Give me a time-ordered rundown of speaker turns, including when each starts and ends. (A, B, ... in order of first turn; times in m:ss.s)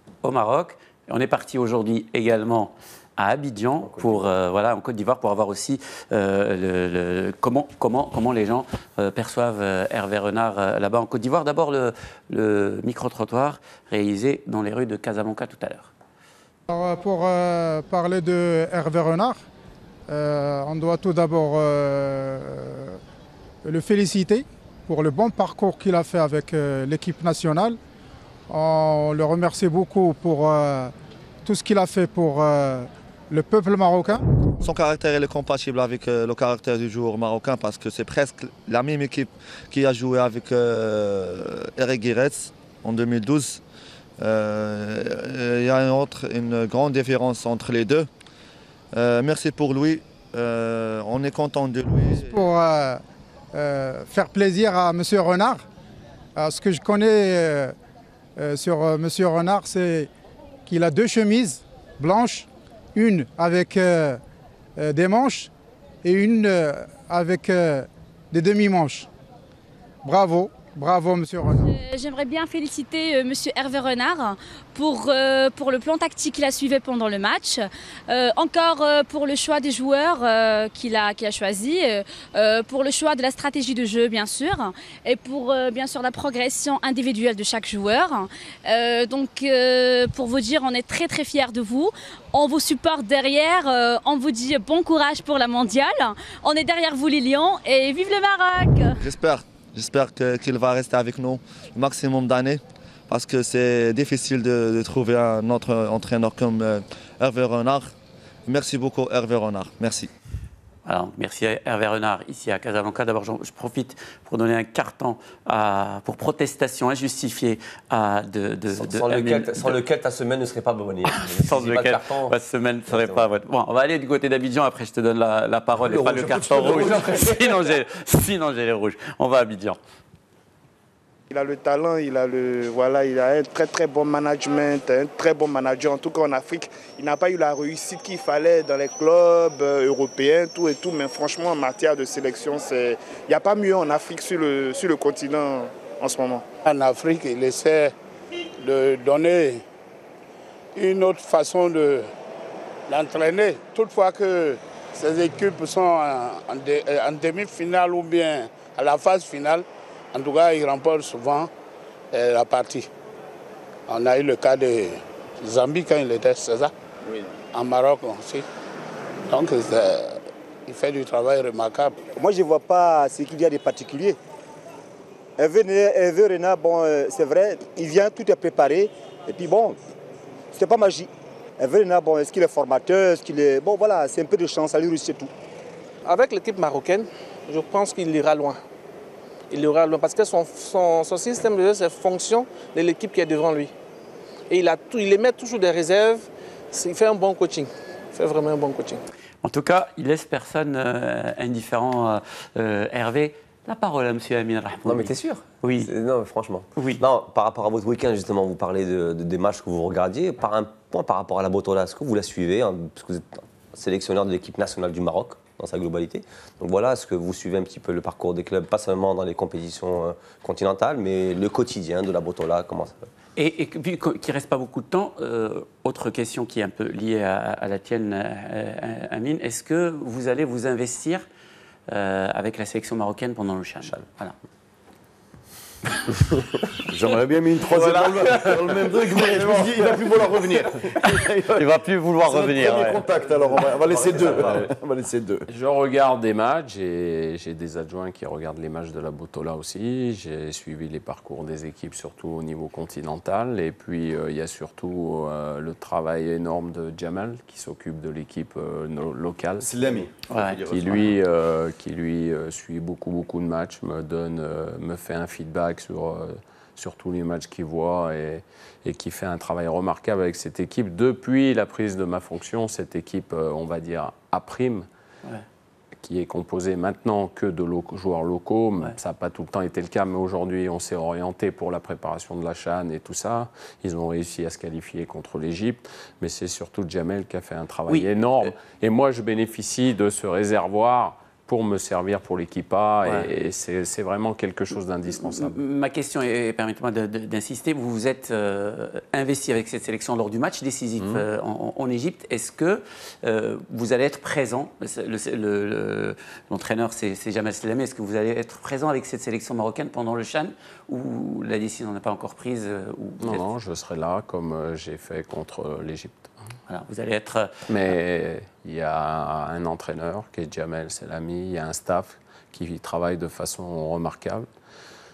0:00.2-0:15.9 A
0:03.8-0:04.2 B
0:16.7-0:19.4 C
0:20.1-0:23.0 C
0:23.6-0:27.8 C
0:28.5-0:30.9 C
0:31.5-0:34.2 C
0:34.6-0:43.6 D
0:44.2-0:48.1 D
0:48.9-0:52.5 D
0:52.2-0:53.0 C
0:53.5-0:55.6 C
0:56.4-0:57.8 C
0:58.4-1:00.1 C
1:00.7-1:04.2 C
1:04.8-1:05.5 C
1:06.0-1:09.1 C
1:10.0-1:11.7 C
1:11.6-1:39.0 E
1:39.0-1:47.9 D
1:48.5-1:50.1 D
1:50.9-1:59.8 A
1:58.8-2:02.4 B
2:01.0-2:09.8 A
2:02.9-2:03.3 B
2:05.8-2:07.7 F
2:11.3-2:26.4 G
2:26.6-2:28.0 H
2:28.6-2:29.6 H
2:30.8-2:32.1 H
2:32.9-2:41.5 H
2:42.1-2:42.9 H
2:43.9-2:46.7 H
2:47.5-2:48.5 H
2:49.3-2:52.0 H
2:52.2-2:54.2 I
2:55.4-2:59.8 I
3:00.5-3:05.3 I
3:06.0-3:08.6 J
3:09.5-3:13.7 J
3:14.5-3:19.0 J
3:19.4-3:25.9 A
3:24.8-3:43.1 B
3:26.8-3:27.0 A
3:43.4-3:51.2 A
3:51.9-3:54.4 A
3:56.9-4:05.5 F
3:57.7-4:00.1 A
4:01.0-4:03.0 A
4:03.9-4:04.6 B
4:05.5-4:19.7 K
4:19.6-4:21.2 F
4:20.3-4:20.6 A
4:20.7-4:34.9 K
4:36.0-4:55.6 K
4:55.2-5:13.4 A
5:13.2-5:16.3 K
5:16.7-5:17.9 A
5:17.7-5:24.5 K